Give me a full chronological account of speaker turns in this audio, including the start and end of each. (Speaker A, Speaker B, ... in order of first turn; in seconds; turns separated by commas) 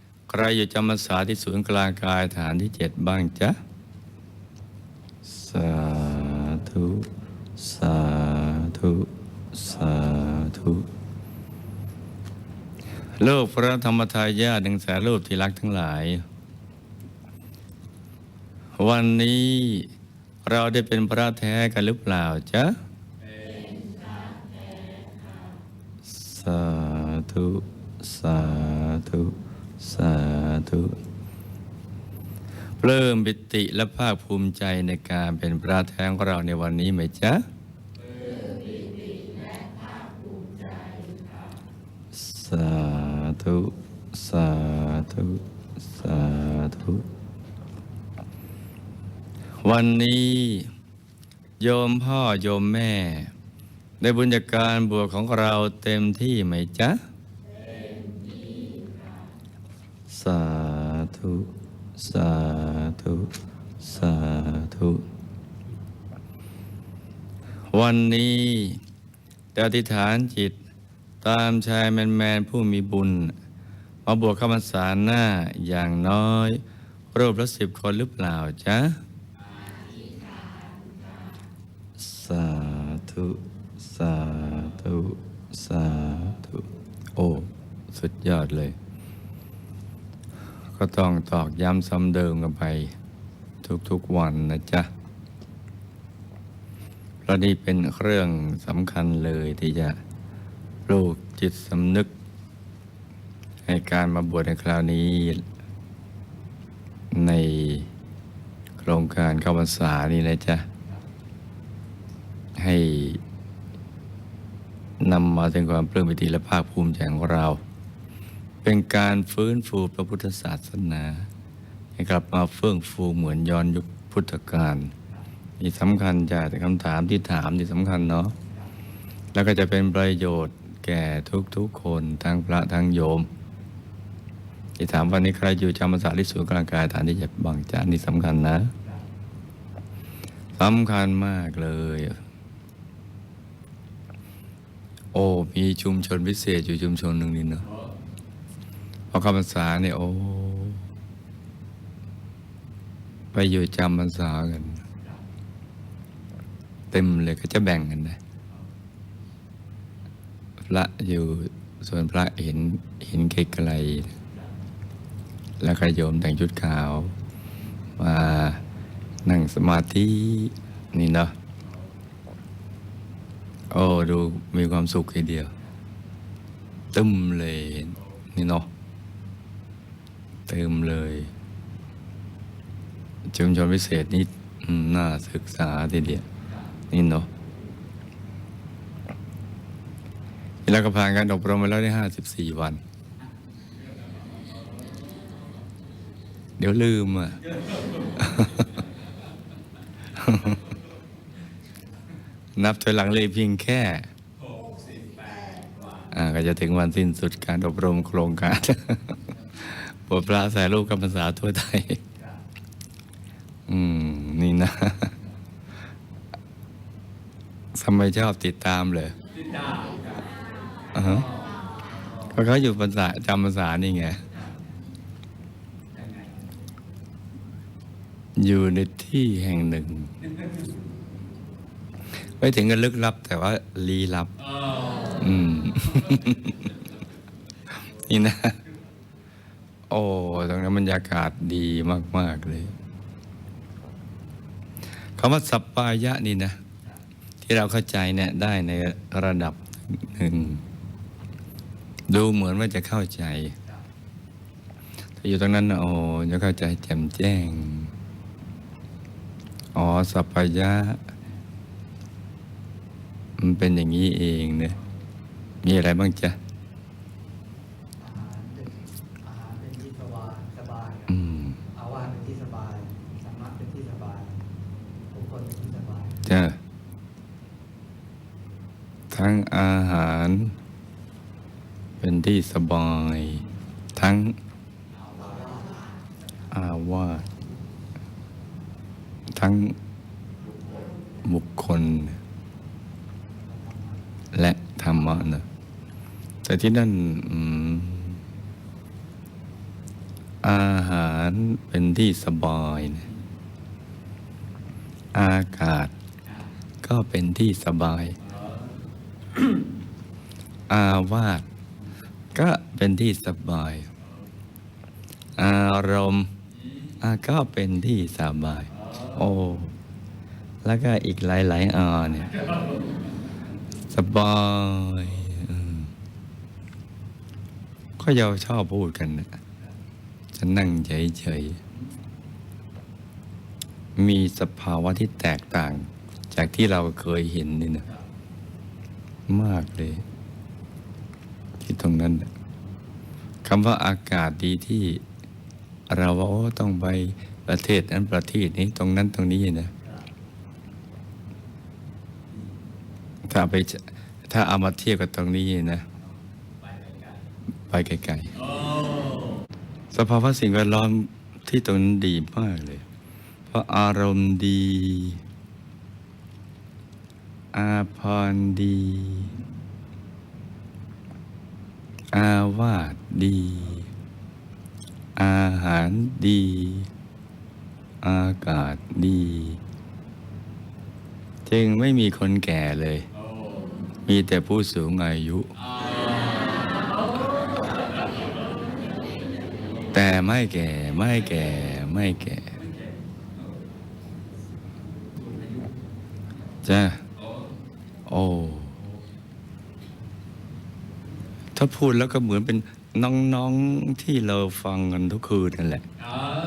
Speaker A: 0.3-3.6, Speaker A: 5.2-10.9, Speaker A: 13.2-16.2, Speaker A: 18.8-19.9, Speaker A: 20.4-22.8, Speaker A: 26.0-31.0, Speaker A: 32.8-37.4, Speaker A: 42.1-47.0, Speaker A: 49.6-50.7, Speaker A: 51.6-53.3, Speaker A: 54.0-57.0, Speaker A: 60.1-65.0, Speaker A: 67.7-68.8, Speaker A: 69.5-70.6, Speaker A: 71.2-73.3, Speaker A: 74.0-76.6, Speaker A: 77.1-79.0, Speaker A: 82.0-88.8, Speaker A: 90.7-92.9, Speaker A: 93.6-94.9, Speaker A: 97.2-100.0, Speaker A: 100.9-102.1, Speaker A: 103.7-105.4, Speaker A: 107.1-107.9, Speaker A: 108.8-110.7, Speaker A: 112.6-113.2, Speaker A: 115.0-117.6, Speaker A: 118.6-121.3, Speaker A: 122.0-124.9, Speaker A: 125.6-128.3, Speaker A: 129.3-133.3, Speaker A: 134.8-138.7, Speaker A: 140.6-142.2, Speaker A: 145.1-147.6, Speaker A: 149.1-150.8, Speaker A: 153.3-154.8, Speaker A: 156.9-158.2, Speaker A: 160.6-164.1, Speaker A: 165.6-167.1, Speaker A: 168.0-168.6, Speaker A: 169.2-171.3, Speaker A: 173.7-175.5, Speaker A: 176.9-178.7, Speaker A: 180.5-181.3, Speaker A: 183.3-186.2, Speaker A: 186.9-187.3, Speaker A: 190.7-192.8, Speaker A: 196.6-197.4, Speaker A: 198.1-198.7, Speaker A: 200.2-200.6, Speaker A: 202.6-204.1, Speaker A: 206.1-212.0, Speaker A: 213.7-215.2, Speaker A: 217.7-219.2, Speaker B: 219.4-220.4, Speaker A: 220.9-221.3, Speaker B: 221.5-221.8, Speaker A: 222.3-224.3, Speaker A: 228.4-230.1, Speaker A: 232.1-234.3, Speaker B: 234.6-235.1, Speaker A: 235.0-236.7, Speaker A: 237.7-238.6, Speaker A: 239.9-242.7, Speaker A: 245.2-246.6, Speaker A: 247.4-250.6, Speaker A: 252.1-253.6, Speaker A: 255.2-257.9, Speaker A: 259.7-261.0, Speaker A: 263.4-264.8, Speaker A: 265.6-266.4, Speaker B: 268.0-271.1, Speaker A: 271.1-271.6, Speaker B: 271.7-274.4, Speaker B: 275.1-276.2, Speaker A: 276.2-276.6, Speaker A: 279.1-280.5, Speaker A: 282.0-283.4, Speaker A: 283.9-284.4, Speaker B: 285.1-285.9, Speaker A: 286.5-287.3, Speaker A: 289.3-289.8, Speaker A: 291.2-292.2, Speaker B: 293.5-294.0, Speaker A: 294.3-295.4, Speaker A: 296.4-298.2, Speaker A: 300.4-303.1, Speaker A: 305.1-305.9, Speaker A: 306.8-308.2, Speaker A: 310.7-311.4, Speaker A: 312.3-313.9, Speaker A: 315.4-316.3, Speaker A: 317.0-319.7, Speaker A: 320.6-322.4, Speaker A: 323.9-325.9, Speaker A: 328.0-329.4, Speaker A: 330.3-331.6, Speaker A: 333.9-337.9, Speaker A: 339.3-340.0, Speaker A: 341.6-342.3, Speaker A: 343.4-345.0, Speaker A: 345.9-349.7, Speaker A: 353.3-355.9, Speaker B: 356.6-357.1, Speaker A: 357.7-358.4, Speaker B: 358.5-359.4, Speaker A: 359.9-362.8, Speaker A: 363.5-365.2, Speaker A: 367.5-369.3, Speaker A: 372.1-373.9, Speaker A: 375.1-376.9, Speaker A: 378.0-379.6, Speaker A: 381.4-383.1, Speaker A: 384.1-385.5, Speaker A: 389.9-392.6, Speaker A: 396.6-397.0, Speaker A: 398.1-398.8, Speaker A: 401.5-405.9